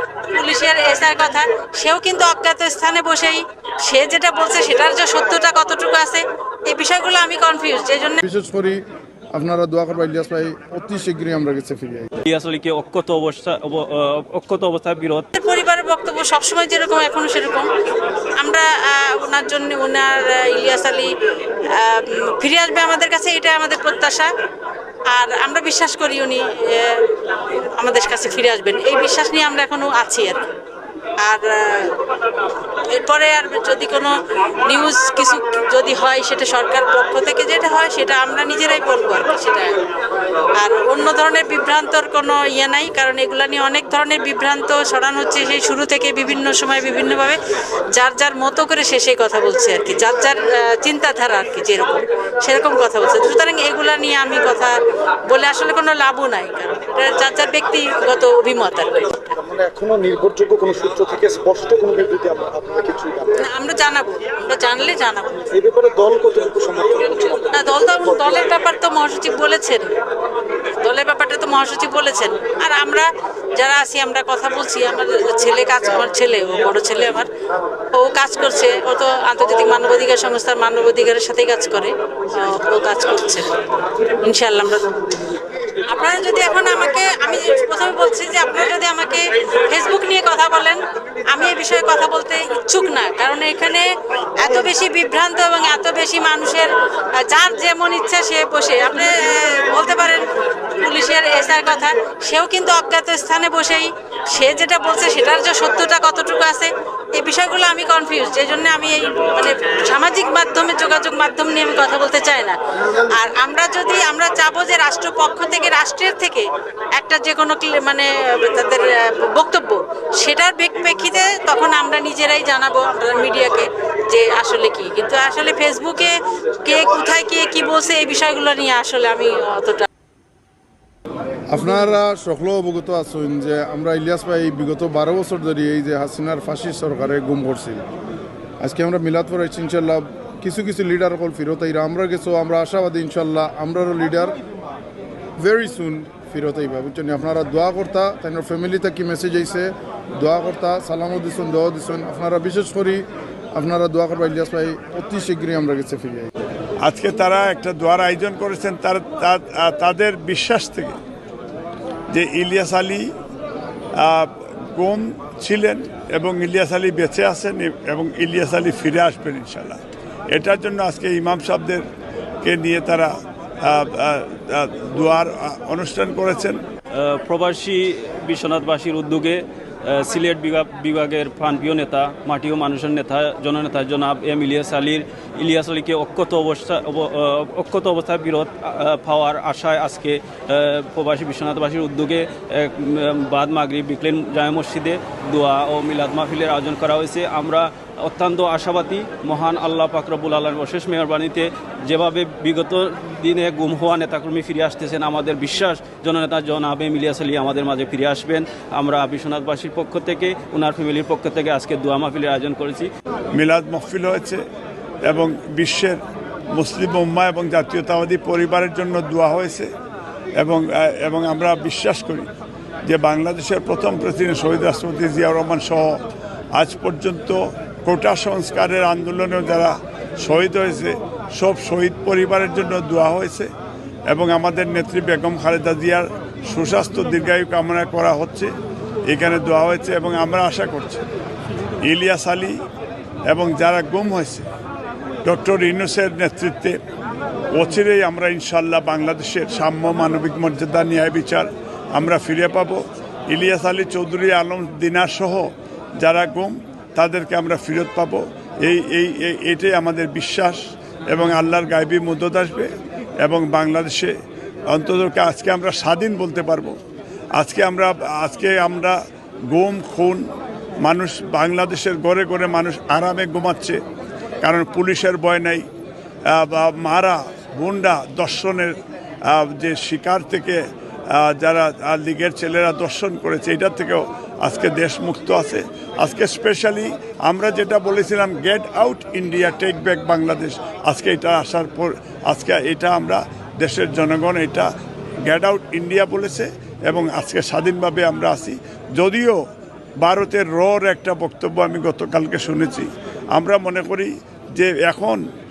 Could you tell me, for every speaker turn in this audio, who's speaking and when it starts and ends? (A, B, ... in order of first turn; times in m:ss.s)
0:00.3-0:08.2 A
0:08.2-0:08.8 B
0:09.3-0:12.1 B
0:12.2-0:15.3 C
0:15.3-0:21.1 A
0:21.6-0:24.3 A
0:25.1-0:30.5 A
0:31.2-0:32.0 A
0:32.9-0:34.1 A
0:34.6-0:39.8 A
0:40.6-0:47.4 A
0:47.9-0:54.7 A
0:55.3-0:59.3 A
0:59.3-1:03.4 D
1:03.4-1:05.4 A
1:05.5-1:08.4 D
1:07.5-1:09.9 A
1:10.6-1:17.3 A
1:17.9-1:25.2 A
1:25.8-1:56.4 A
1:57.0-2:09.8 A
2:11.5-2:17.8 B
2:18.6-2:24.3 B
2:25.4-2:33.0 B
2:33.5-2:36.3 B
2:36.8-2:41.0 E
2:42.1-2:43.1 E
2:43.9-2:51.8 E
2:52.4-2:56.6 E
2:56.9-3:32.9 C
3:33.3-3:34.4 E
3:35.0-3:39.7 E
3:40.4-3:42.3 E
3:42.8-3:53.5 E
3:54.1-3:58.5 E
3:59.0-4:01.0 E
4:01.8-4:02.6 E
4:03.2-4:04.5 E
4:05.2-4:06.8 E
4:07.5-4:26.8 E
4:27.3-4:33.8 E
4:34.4-4:35.6 E
4:36.2-4:54.7 E
4:55.2-4:59.4 E
5:00.0-5:05.2 E